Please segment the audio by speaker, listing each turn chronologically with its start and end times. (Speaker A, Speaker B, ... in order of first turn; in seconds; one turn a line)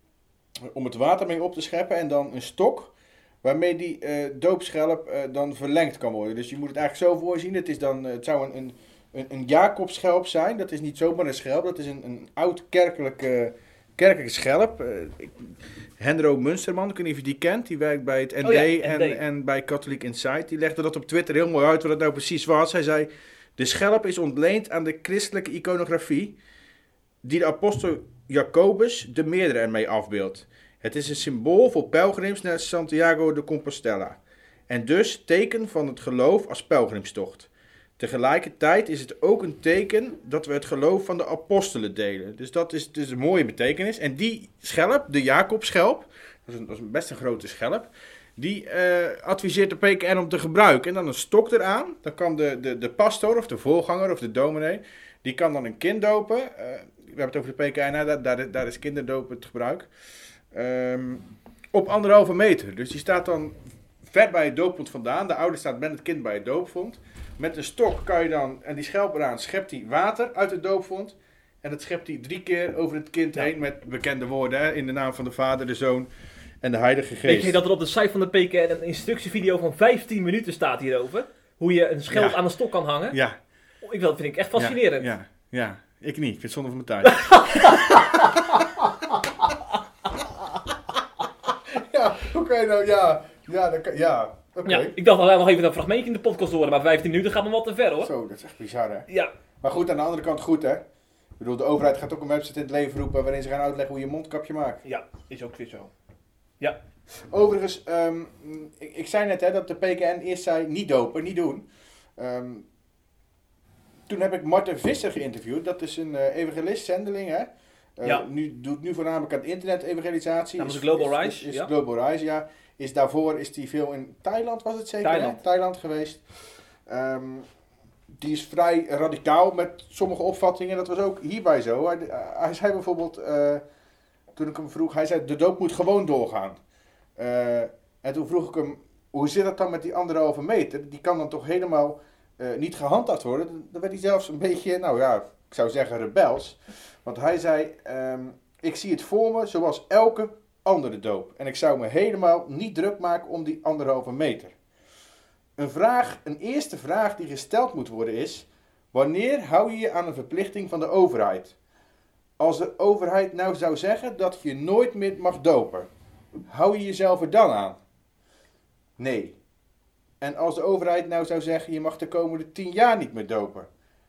Speaker A: 0.7-26.4
Speaker B: 18.4-19.2
Speaker A: 27.2-59.9
Speaker A: 60.5-76.1
Speaker A: 76.6-77.6
Speaker B: 77.2-83.2
Speaker A: 82.1-82.4
Speaker A: 83.1-83.4
Speaker B: 83.8-85.1
Speaker A: 84.6-88.6
Speaker B: 87.0-88.2
Speaker A: 91.7-94.9
Speaker B: 94.7-98.1
Speaker A: 98.0-99.1
Speaker A: 99.6-100.8
Speaker A: 101.4-104.8
Speaker B: 104.8-105.9
Speaker A: 107.2-111.7
Speaker A: 112.2-112.7
Speaker A: 114.1-126.3
Speaker B: 120.6-121.7
Speaker B: 125.0-125.4
Speaker A: 126.8-127.5
Speaker A: 128.2-133.6
Speaker A: 134.3-136.6
Speaker A: 137.2-154.5
Speaker A: 155.6-161.6
Speaker A: 162.4-165.9
Speaker A: 166.5-167.8
Speaker A: 169.0-169.4
Speaker A: 170.2-173.7